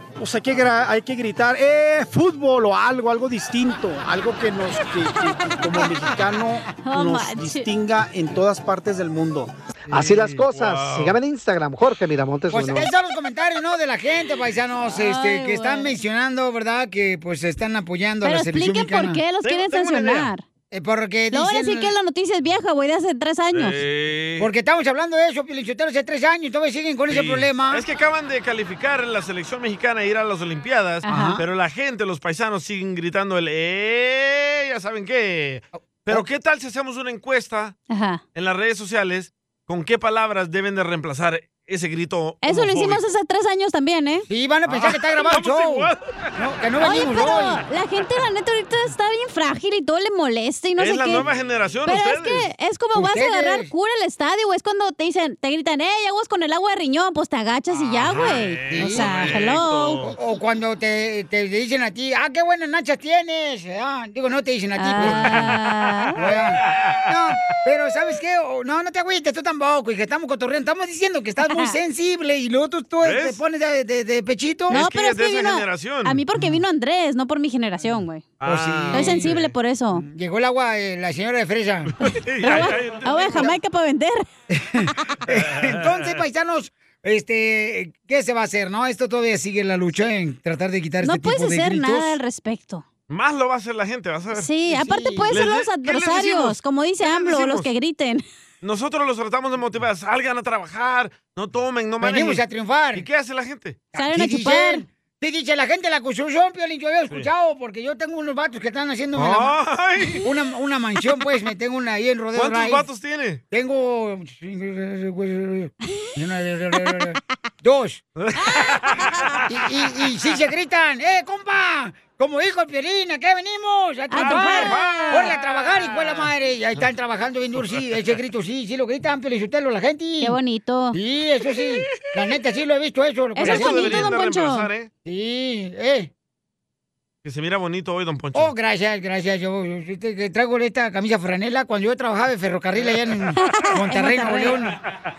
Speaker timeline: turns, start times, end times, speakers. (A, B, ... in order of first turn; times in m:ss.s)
0:00.2-0:09.5 A
0:06.7-0:07.7 B
0:09.9-0:12.9 C
0:10.5-0:11.2 D
0:12.5-0:19.2 E
0:14.9-0:15.9 B
0:18.2-0:20.4 B
0:19.4-0:20.3 D
0:20.7-0:21.9 E
0:21.3-0:23.8 B
0:23.5-0:24.5 D
0:24.4-0:27.8 E
0:27.1-0:37.8 D
0:31.1-0:31.4 B
0:31.1-0:31.4 E
0:37.9-0:38.2 B
0:38.4-0:43.0 D
0:42.4-0:44.3 B
0:44.3-0:47.6 E
0:44.7-0:46.2 D
0:46.8-0:51.2 B
0:50.8-0:52.5 D
0:51.9-1:00.0 B
0:52.9-0:53.7 E
0:57.7-1:00.2 D
0:58.7-0:59.4 E
1:00.1-1:05.4 E
1:04.8-1:06.2 B
1:05.0-1:05.6 D
1:06.2-1:14.8 E
1:06.6-1:07.0 D
1:11.4-1:11.8 B
1:13.0-1:13.4 D
1:14.7-1:18.3 B
1:14.7-1:16.2 D
1:18.4-1:19.6 D
1:18.4-1:19.3 E
1:18.9-1:20.0 B
1:19.9-1:21.9 E
1:22.0-1:23.6 D
1:22.4-1:24.2 B
1:24.5-1:32.2 E
1:25.3-1:25.9 D
1:31.0-1:32.8 B
1:33.1-1:34.5 D
1:34.3-1:38.2 B
1:34.7-1:35.3 E
1:35.3-1:37.7 D
1:38.6-1:42.4 D
1:42.0-1:43.1 E
1:42.9-1:43.8 D
1:43.9-1:49.6 E
1:43.9-1:44.9 B
1:49.2-1:50.2 D
1:50.2-1:52.8 E
1:52.4-1:53.4 D
1:53.5-1:58.0 E
1:58.2-1:59.4 D
1:58.5-1:59.3 B
1:59.5-2:10.4 E
2:04.1-2:05.4 B
2:04.2-2:06.3 D
2:10.2-2:11.0 B
2:10.9-2:14.1 E
2:13.4-2:14.7 B
2:13.4-2:14.9 D
2:15.0-2:16.1 E
2:17.2-2:18.5 D
2:18.4-2:24.8 E
2:23.4-2:24.6 B